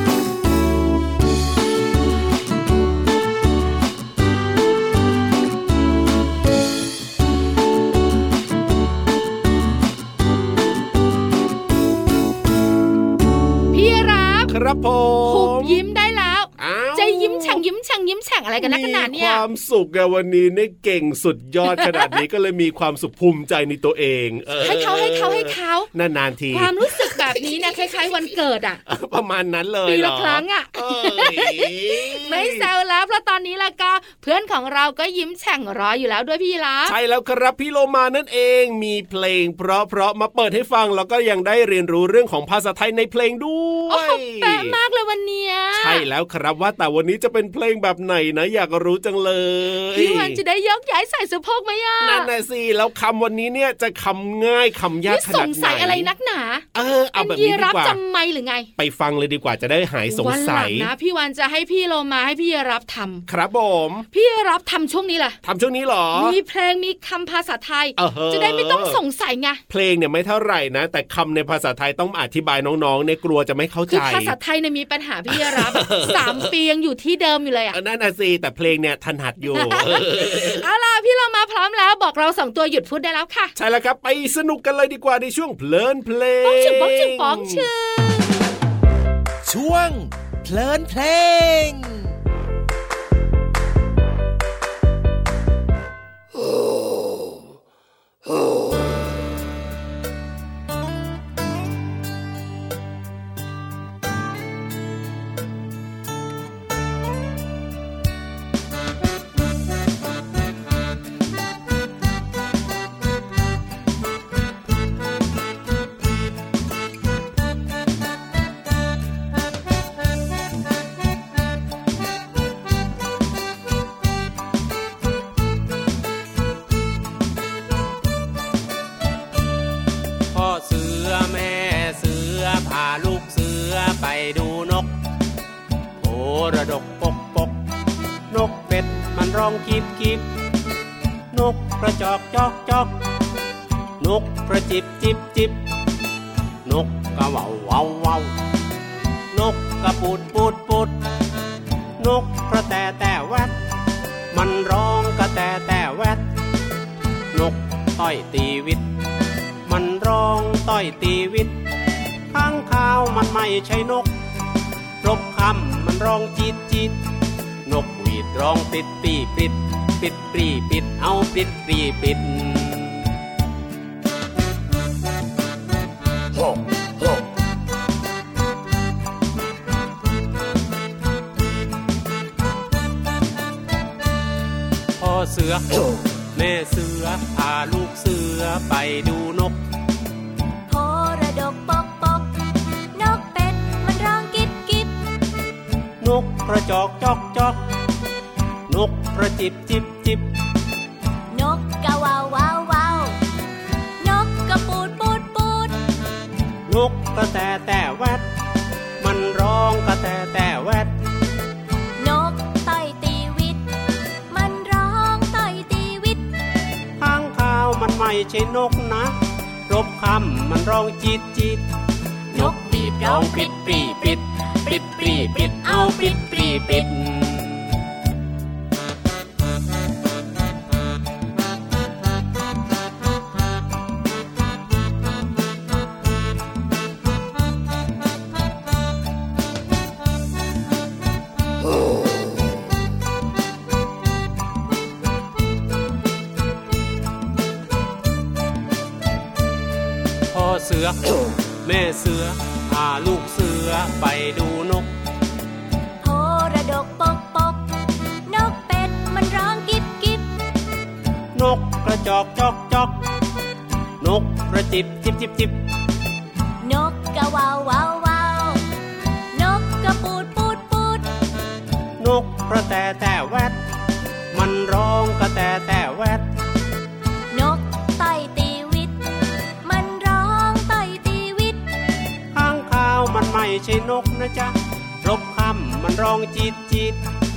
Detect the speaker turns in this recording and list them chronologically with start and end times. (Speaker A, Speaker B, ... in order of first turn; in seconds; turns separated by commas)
Speaker A: 13.7-14.5, Speaker B: 14.5-15.8, Speaker A: 15.3-19.4, Speaker B: 16.6-17.6, Speaker B: 18.6-28.0, Speaker A: 21.7-22.2, Speaker A: 24.6-25.9, Speaker A: 26.5-28.8, Speaker B: 28.9-32.7, Speaker A: 29.9-36.9, Speaker B: 36.9-44.8, Speaker A: 43.9-46.0, Speaker B: 45.7-50.4, Speaker A: 49.9-52.3, Speaker B: 52.0-56.1, Speaker A: 55.1-56.6, Speaker B: 56.7-58.0, Speaker A: 57.1-58.7, Speaker B: 58.8-60.9, Speaker A: 60.1-63.2, Speaker B: 63.3-64.0, Speaker A: 64.1-65.4, Speaker B: 65.4-66.4, Speaker A: 66.1-69.6, Speaker B: 68.0-69.0, Speaker B: 69.7-74.3, Speaker A: 73.9-77.8, Speaker B: 75.3-76.5, Speaker B: 77.7-80.7, Speaker A: 79.5-83.5, Speaker B: 83.5-87.7, Speaker A: 86.4-88.5, Speaker C: 89.4-92.1, Speaker D: 130.3-134.9, Speaker D: 136.0-137.6, Speaker D: 138.3-140.2, Speaker D: 141.3-142.9, Speaker D: 144.0-145.6, Speaker D: 146.6-148.3, Speaker D: 149.3-151.0, Speaker D: 152.0-153.5, Speaker D: 154.3-156.2, Speaker D: 157.3-158.8, Speaker D: 159.7-161.5, Speaker D: 162.3-164.1, Speaker D: 165.0-167.0, Speaker D: 167.7-173.0, Speaker D: 185.0-185.8, Speaker D: 186.3-189.6, Speaker E: 190.7-192.3, Speaker E: 192.9-194.9, Speaker D: 196.0-197.6, Speaker D: 198.7-200.3, Speaker E: 201.3-203.1, Speaker E: 204.0-205.8, Speaker D: 206.7-208.2, Speaker D: 209.0-210.9, Speaker E: 212.0-213.6, Speaker E: 214.3-216.2, Speaker D: 217.0-219.1, Speaker D: 219.7-221.6, Speaker D: 222.3-227.7, Speaker E: 222.3-226.9, Speaker D: 250.3-251.1, Speaker D: 251.6-254.9, Speaker E: 256.0-257.6, Speaker E: 258.3-260.3, Speaker D: 261.3-263.0, Speaker D: 264.0-265.6, Speaker E: 266.6-268.6, Speaker E: 269.3-271.1, Speaker D: 272.0-273.6, Speaker D: 274.3-276.2, Speaker E: 277.3-279.0, Speaker E: 279.6-281.6, Speaker D: 282.3-287.0